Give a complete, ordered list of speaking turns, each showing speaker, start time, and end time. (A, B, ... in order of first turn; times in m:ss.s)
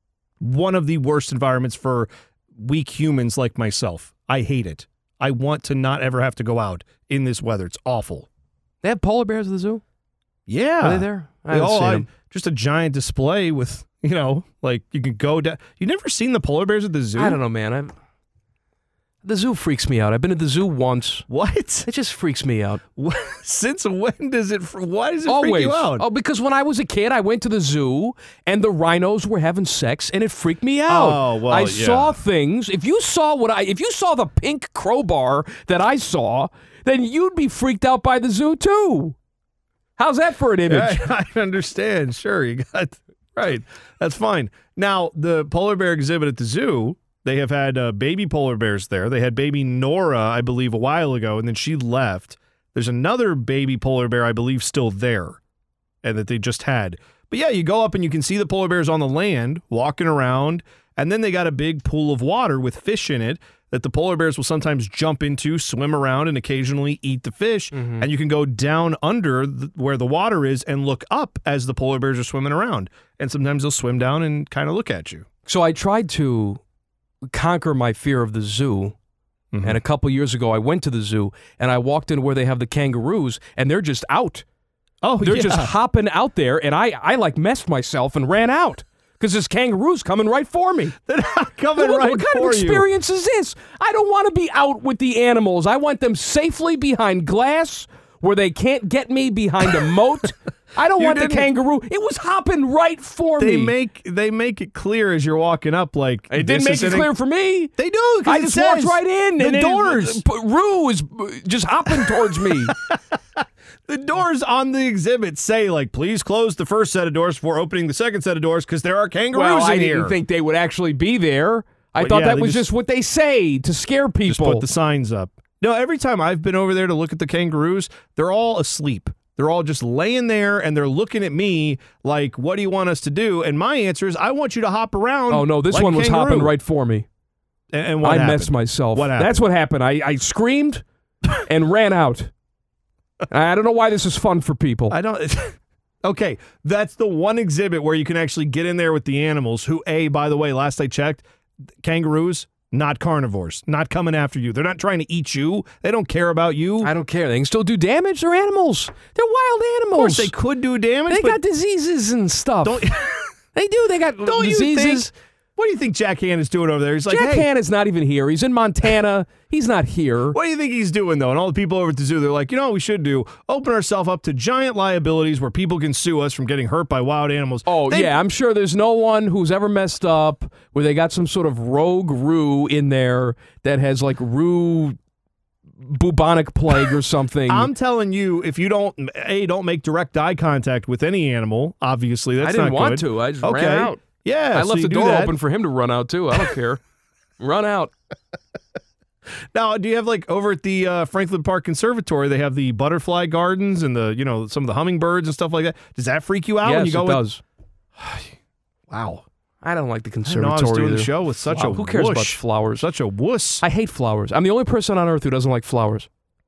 0:00.4-0:08.3 A
0:08.8-0:09.8 B
0:10.5-0:17.4 A
0:10.8-0:12.1 B
0:17.1-0:17.9 B
0:19.2-0:21.2 B
0:21.3-0:21.9 A
0:21.8-0:22.8 B
0:23.0-0:26.0 A
0:25.2-0:39.1 B
0:30.9-0:32.2 A
0:40.0-0:41.0 B
0:40.6-0:55.4 A
0:56.0-1:15.2 A
1:07.8-1:08.1 B
1:15.4-1:16.6 B
1:17.3-1:18.9 B
1:19.5-1:19.8 A
1:19.6-1:24.4 B
1:25.0-1:25.7 A
1:25.2-1:30.9 B
1:31.0-1:32.8 A
1:31.8-1:43.7 B
1:41.0-1:41.5 A
1:43.4-1:47.1 A
1:46.3-1:47.7 B
1:47.8-1:50.2 A
1:48.2-1:52.7 B
1:52.1-1:53.0 A
1:53.9-2:00.2 A
1:59.3-2:04.6 B
2:02.0-2:02.7 A
2:04.3-2:16.5 A
2:15.3-2:17.0 B
2:17.7-2:19.4 A
2:18.0-2:22.3 B
2:23.3-2:24.9 B
2:24.9-2:31.2 A
2:31.8-2:36.9 A
2:36.8-2:40.3 B
2:39.9-2:41.4 A
2:41.1-2:42.8 B
2:42.6-2:43.3 A
2:43.5-2:45.1 B
2:44.2-2:47.5 A
2:47.1-2:50.4 B
2:50.3-2:58.1 A
2:57.6-3:05.0 B
3:05.8-3:07.7 B
3:07.5-3:15.4 A
3:12.4-3:16.8 B
3:17.4-3:17.9 B
3:19.5-3:27.2 A
3:26.6-3:27.4 B
3:28.0-3:28.3 A
3:28.9-3:29.2 A
3:29.6-3:32.9 B
3:30.2-3:33.6 A
3:33.6-3:36.1 B